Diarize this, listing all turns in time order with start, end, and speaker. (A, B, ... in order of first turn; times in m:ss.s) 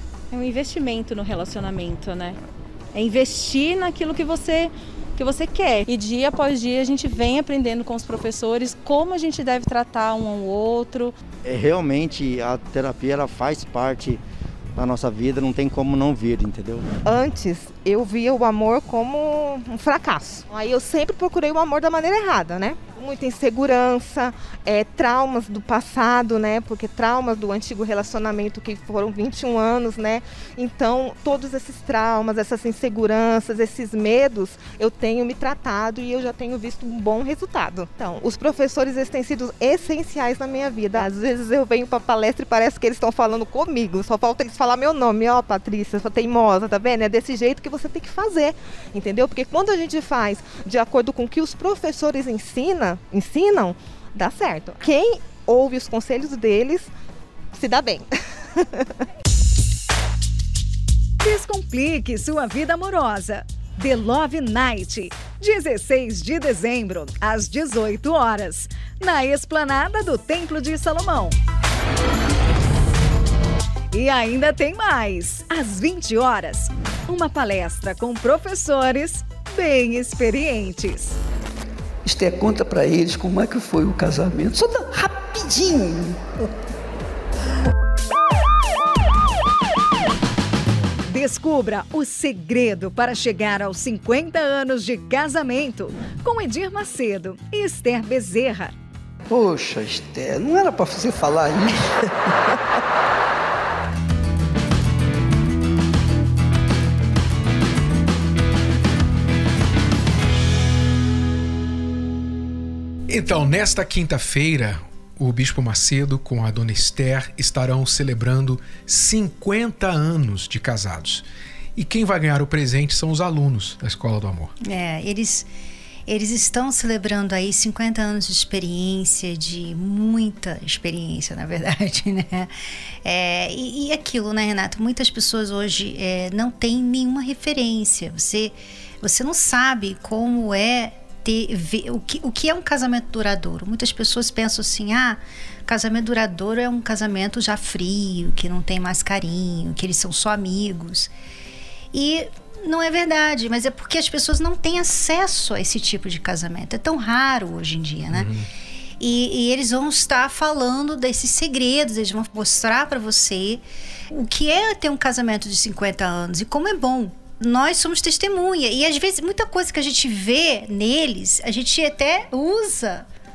0:00.3-0:02.4 A
0:02.9-0:11.1 A
0:11.4-0:14.2 B
0:14.8-0:16.9 B
0:17.0-0:56.9 C
0:57.5-0:58.9 C
1:01.2-1:11.4 D
1:13.9-1:21.2 D
1:22.0-1:26.4 E
1:31.1-1:38.7 D
1:39.3-1:42.1 E
1:53.1-2:01.2 F
2:01.8-2:04.5 F
2:04.6-2:05.5 G
2:06.1-2:12.5 G
2:13.0-2:31.1 G
2:31.9-2:38.3 G
2:38.1-2:38.5 F
2:39.0-2:53.0 G